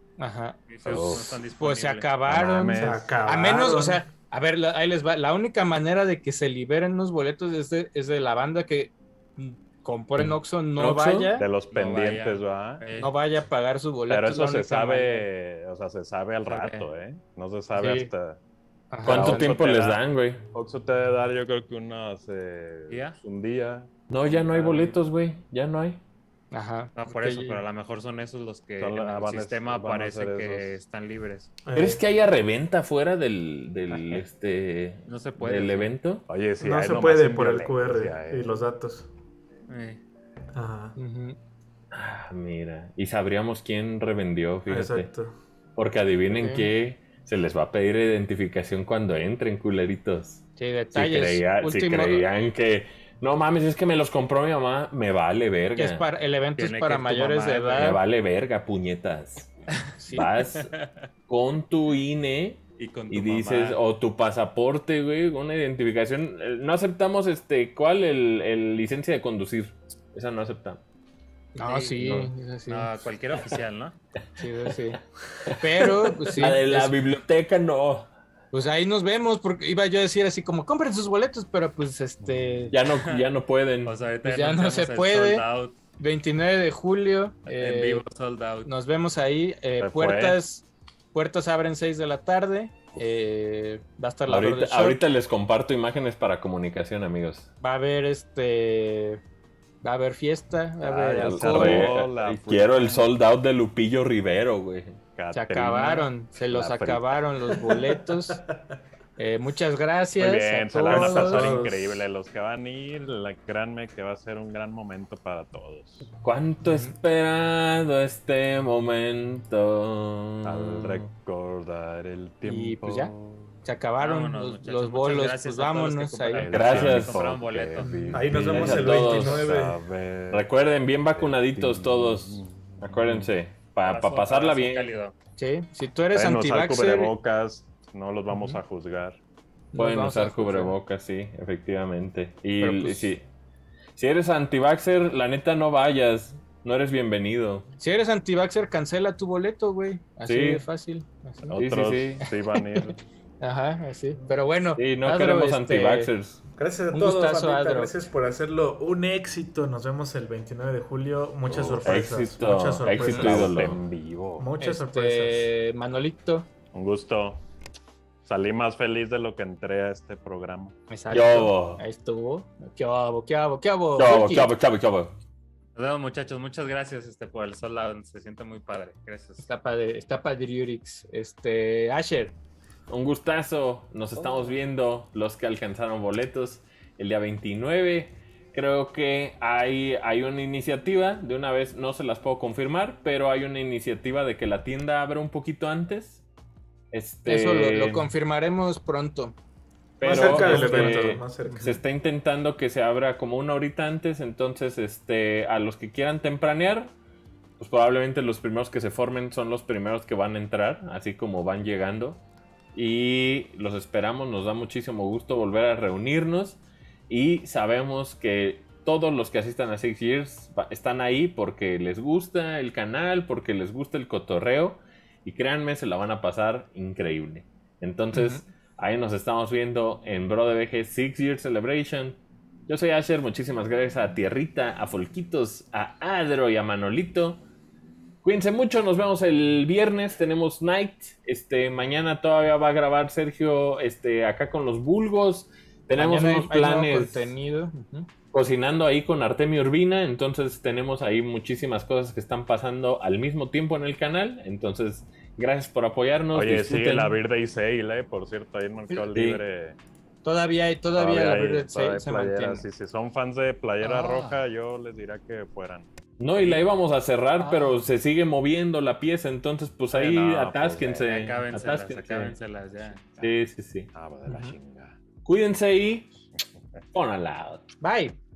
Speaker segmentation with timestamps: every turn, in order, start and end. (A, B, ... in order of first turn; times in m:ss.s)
0:00.2-0:00.7 A
0:00.7-0:02.1 B
0:00.8-0:01.4 C
0:01.6-0:11.5 A
0:02.2-0:03.1 D
0:02.8-0:04.1 E
0:10.2-0:11.3 C
0:11.4-0:12.8 D
0:11.7-0:13.1 B
0:13.0-0:15.3 A
0:14.1-0:18.4 D
0:16.4-0:16.9 B
0:17.7-0:18.1 A
0:18.9-0:19.6 A
0:19.0-0:20.0 D
0:19.0-0:20.4 C
0:20.5-0:24.9 D
0:22.9-0:23.2 B
0:24.1-0:26.0 C
0:26.5-0:27.6 A
0:27.0-0:31.5 B
0:28.8-0:30.8 D
0:31.6-0:32.0 E
0:31.7-0:36.3 C
0:33.9-0:34.2 A
0:35.0-0:35.9 B
0:36.3-0:38.6 D
0:36.6-0:39.1 E
0:39.7-0:40.0 B
0:40.5-0:41.0 E
0:41.0-0:41.4 A
0:41.9-0:45.1 C
0:44.7-0:45.4 E
0:45.8-0:56.0 C
0:46.3-0:46.7 A
0:50.6-0:52.2 A
0:55.8-0:58.0 A
0:56.6-0:58.0 B
0:57.8-1:00.7 C
0:59.9-1:00.3 A
1:00.4-1:01.0 B
1:01.3-1:10.8 C
1:02.8-1:03.8 B
1:11.5-1:12.9 A
1:11.6-1:14.0 B
1:14.4-1:15.0 A
1:15.4-1:18.1 C
1:15.5-1:17.0 A
1:18.5-1:22.7 A
1:22.2-1:22.7 D
1:22.7-1:24.0 C
1:22.9-1:23.3 B
1:23.8-1:25.8 B
1:24.2-1:25.4 A
1:26.0-1:28.0 A
1:27.5-1:28.7 B
1:28.6-1:35.0 A
1:29.8-1:30.4 D
1:34.3-1:37.5 C
1:37.6-1:39.2 A
1:39.8-1:41.9 A
1:40.8-1:43.1 D
1:41.2-1:45.0 C
1:45.2-1:47.2 D
1:45.3-1:48.4 A
1:48.4-1:48.7 E
1:49.2-1:51.5 A
1:50.2-1:56.1 D
1:50.9-1:52.0 C
1:51.2-1:51.7 E
1:56.2-2:01.1 C
1:56.6-1:56.9 A
2:00.4-2:03.6 D
2:02.4-2:03.1 A
2:03.6-2:06.5 A
2:04.0-2:08.9 B
2:06.4-2:10.5 D
2:06.5-2:07.3 C
2:08.1-2:09.8 E
2:08.2-2:09.5 C
2:10.3-2:14.9 C
2:11.1-2:13.3 D
2:13.8-2:15.1 B
2:15.4-2:17.1 A
2:16.1-2:19.2 D
2:18.3-2:18.6 A
2:19.7-2:20.8 A
2:19.7-2:23.2 C
2:22.6-2:23.1 A
2:24.0-2:27.7 C
2:27.8-2:31.6 A
2:30.2-2:30.6 C
2:31.4-2:33.0 D
2:31.6-2:32.2 C
2:32.2-2:36.1 A
2:34.8-2:36.4 C
2:36.6-2:43.7 E
2:36.9-2:37.9 A
2:41.5-2:42.0 D
2:41.8-2:43.8 C
2:42.9-2:44.5 D
2:44.4-2:45.5 E
2:44.6-2:46.5 A
2:46.7-2:47.4 D
2:48.2-2:50.8 D
2:50.9-2:54.5 A
2:51.1-2:51.8 C
2:54.0-2:55.2 C
2:55.8-2:59.5 B
2:59.4-3:02.3 A
3:02.9-3:16.2 C
3:04.2-3:04.5 A
3:16.9-3:18.1 C
3:17.2-3:19.3 A
3:20.0-3:26.9 C
3:20.0-3:21.8 E
3:20.1-3:21.1 A
3:27.6-3:32.2 C
3:32.7-3:57.4 C
3:48.1-3:48.4 A
3:58.2-4:07.3 C
4:05.9-4:08.1 A
4:08.3-4:17.2 C
4:16.3-4:19.8 D
4:19.1-4:19.4 C
4:20.2-4:22.6 A
4:20.9-4:25.9 D
4:23.8-4:24.4 A
4:26.2-4:32.3 C
4:27.4-4:27.9 A
4:29.9-4:31.1 D
4:31.0-4:33.1 B
4:33.2-4:33.4 D
4:33.2-4:33.9 C
4:33.9-4:35.0 D
4:34.2-4:34.6 A
4:35.2-4:36.1 C
4:36.9-4:37.6 C
4:37.8-4:38.2 A